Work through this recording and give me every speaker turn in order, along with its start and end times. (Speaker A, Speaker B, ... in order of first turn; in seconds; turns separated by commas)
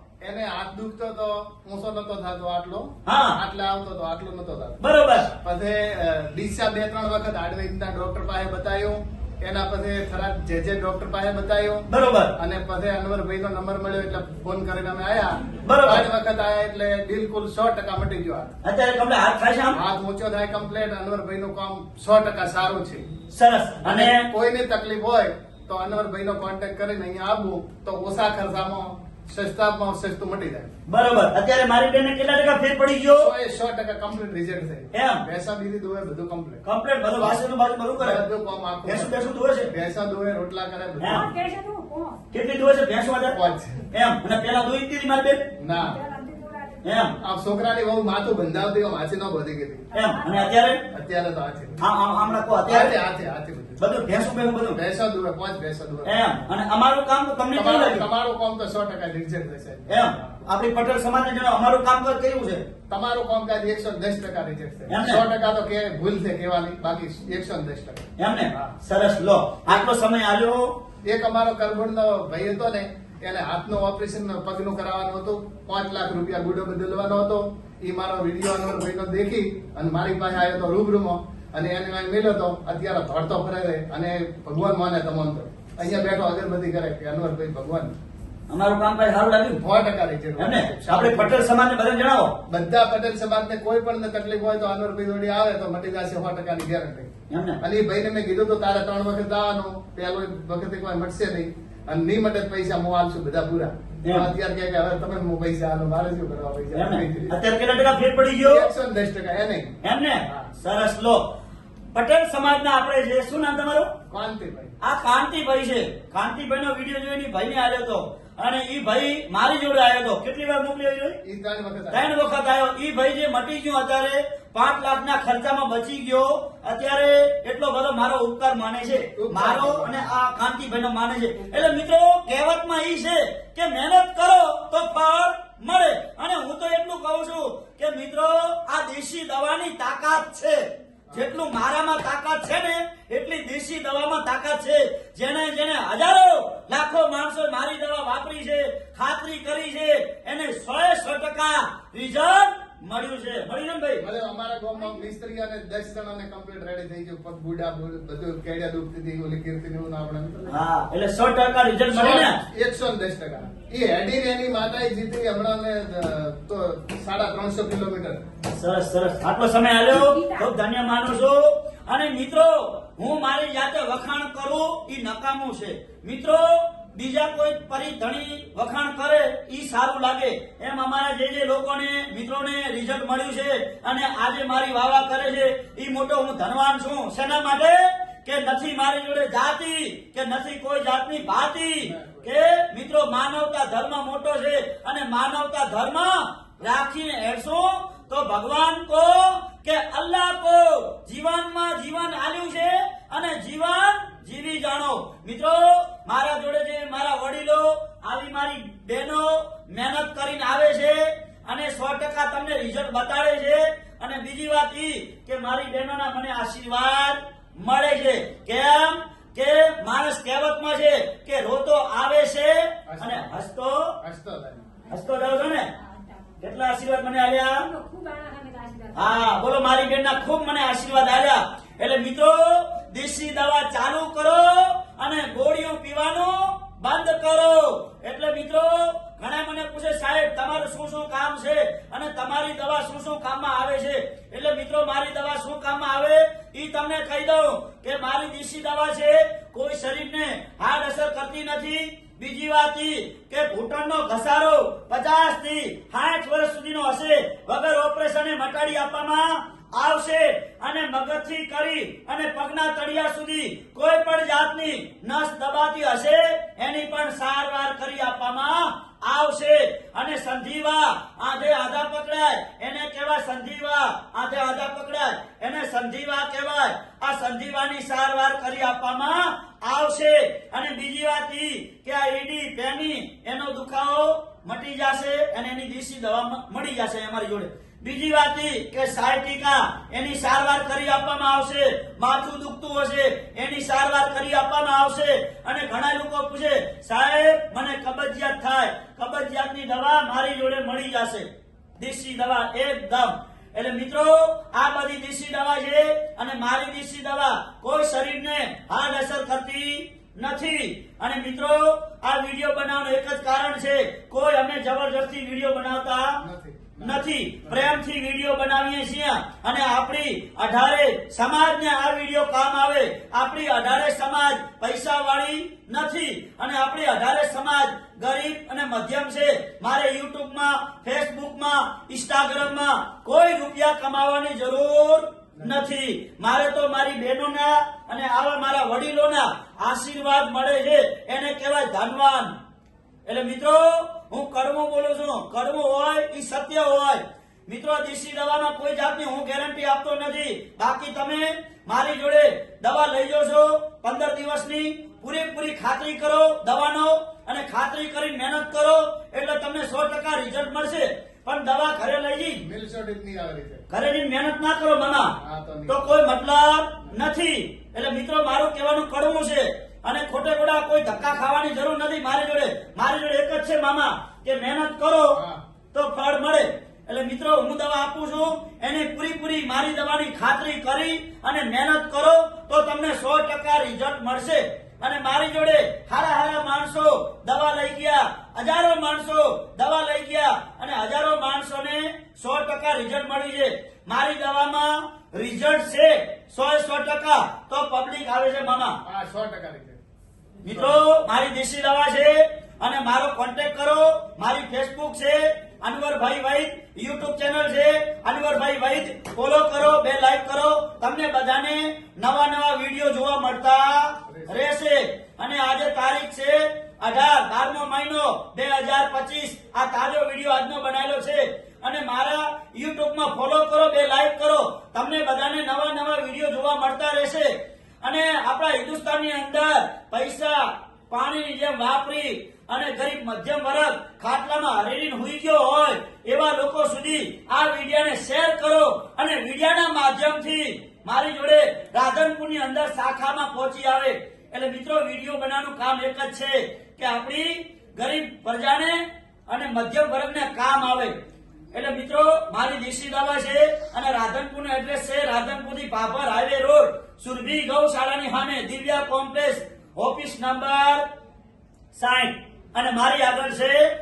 Speaker A: 0.2-18.5, Speaker B: 3.0-3.4, Speaker B: 4.8-5.3, Speaker B: 11.9-12.3, Speaker B: 15.6-16.1, Speaker B: 18.6-19.8, Speaker A: 19.7-23.1, Speaker B: 23.3-24.3, Speaker A: 23.8-30.7, Speaker B: 30.9-33.3, Speaker A: 33.2-36.6, Speaker B: 34.9-35.2, Speaker B: 36.6-38.2, Speaker A: 38.0-41.3, Speaker B: 38.8-39.7, Speaker C: 41.1-42.2, Speaker B: 42.3-43.4, Speaker A: 43.3-43.8, Speaker B: 43.9-45.4, Speaker A: 45.6-46.0, Speaker C: 45.7-46.8, Speaker B: 46.8-47.1, Speaker A: 47.2-49.8, Speaker C: 49.9-50.6, Speaker B: 49.9-50.8, Speaker A: 50.9-51.8, Speaker B: 51.8-53.0, Speaker A: 52.3-53.8, Speaker B: 53.8-54.8, Speaker A: 54.7-56.5, Speaker B: 56.0-58.1, Speaker A: 57.5-60.5, Speaker B: 59.9-62.6, Speaker A: 62.9-68.7, Speaker B: 64.9-65.2, Speaker B: 68.2-70.7, Speaker A: 71.1-87.9, Speaker B: 88.5-89.6, Speaker A: 89.5-91.5, Speaker B: 90.4-92.3, Speaker A: 92.5-97.1, Speaker B: 97.3-97.6, Speaker A: 97.6-107.4, Speaker B: 106.7-108.7, Speaker A: 108.4-110.5, Speaker B: 109.8-111.2, Speaker B: 111.9-113.9, Speaker A: 114.1-114.8, Speaker B: 114.8-121.2, Speaker A: 121.2-122.1, Speaker B: 121.9-154.0, Speaker A: 129.1-130.1, Speaker A: 154.0-160.6, Speaker B: 160.5-162.4, Speaker A: 161.9-168.2, Speaker B: 168.5-223.9, Speaker C: 169.9-170.5, Speaker A: 191.8-192.3, Speaker A: 222.9-223.3, Speaker A: 224.0-224.6, Speaker B: 224.9-225.7, Speaker C: 225.9-226.2, Speaker B: 226.4-227.7, Speaker C: 227.6-229.4, Speaker B: 228.9-316.1, Speaker A: 316.2-317.8, Speaker B: 316.8-342.3, Speaker A: 335.4-335.7, Speaker B: 343.1-362.4, Speaker A: 362.4-363.6, Speaker B: 363.7-365.1, Speaker A: 365.2-365.9, Speaker B: 365.7-375.2, Speaker B: 375.7-398.8, Speaker A: 398.9-399.8, Speaker B: 400.4-427.3, Speaker A: 400.4-400.8, Speaker A: 414.1-414.4, Speaker B: 427.8-450.9, Speaker B: 451.5-460.8, Speaker B: 461.7-463.7